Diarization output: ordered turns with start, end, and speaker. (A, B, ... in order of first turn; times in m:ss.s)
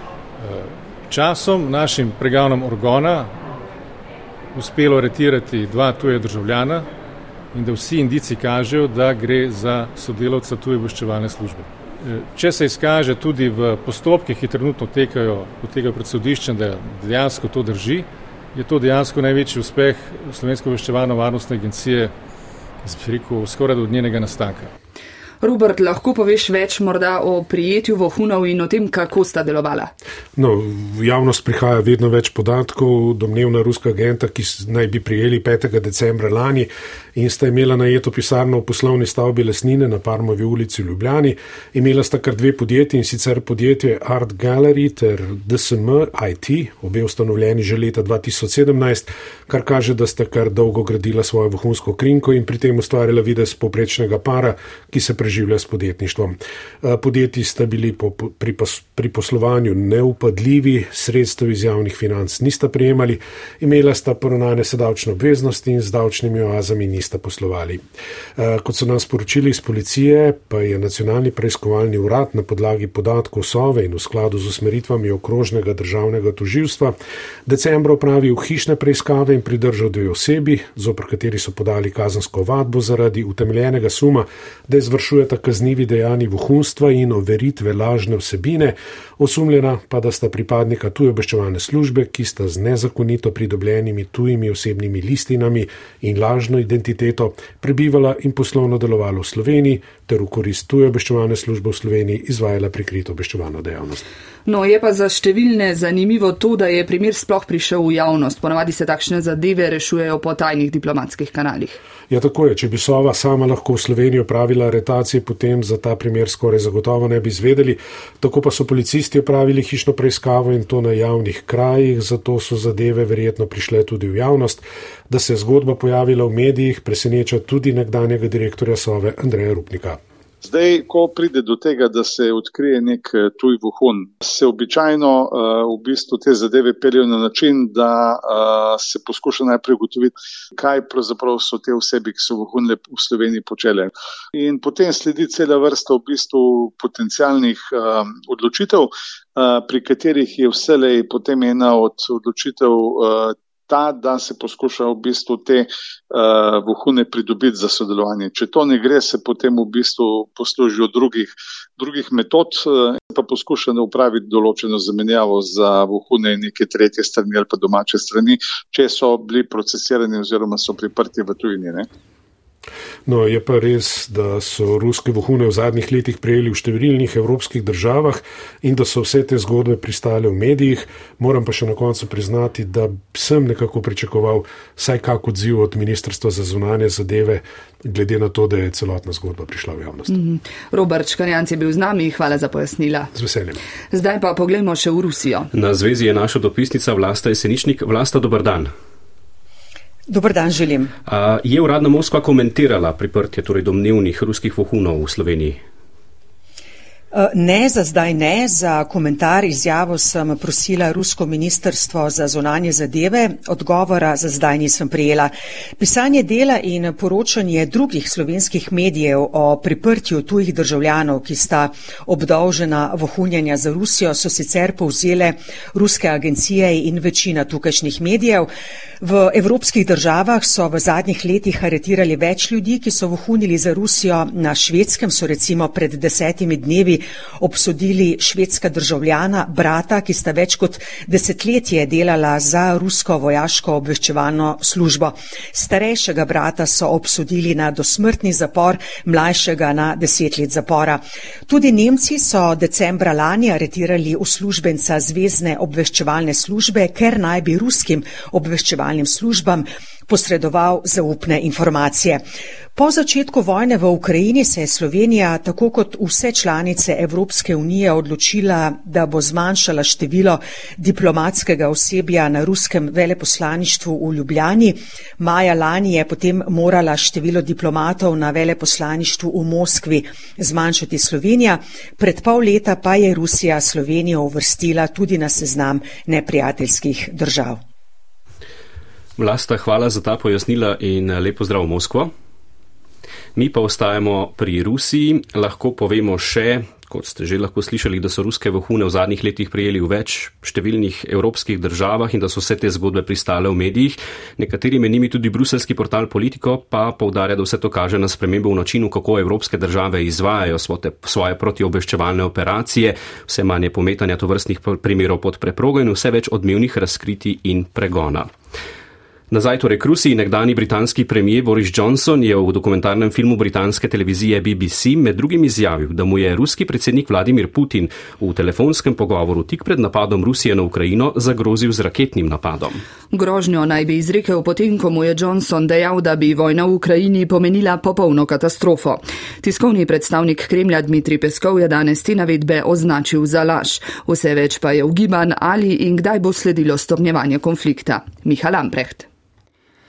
0:00.4-0:03.4 A
0:04.6-0:06.9 A
0:07.5-0:22.1 A
0:22.8-0:24.7 A
0:25.4-0:29.9 B
0:30.4-1:07.8 C
1:08.4-1:17.0 C
1:17.5-1:44.0 C
1:44.5-1:51.8 B
1:52.1-2:10.0 C
2:10.4-2:51.9 D
2:53.1-3:10.2 C
3:10.1-3:13.1 B
3:13.1-3:13.6 C
3:13.9-3:15.5 B
3:15.5-3:18.7 E
3:20.1-3:20.9 F
3:21.1-3:25.6 E
3:27.1-4:22.2 F
4:22.8-4:47.6 F
4:49.2-4:52.1 E
4:53.4-5:18.3 E
5:19.3-5:32.8 E
5:33.1-5:49.1 B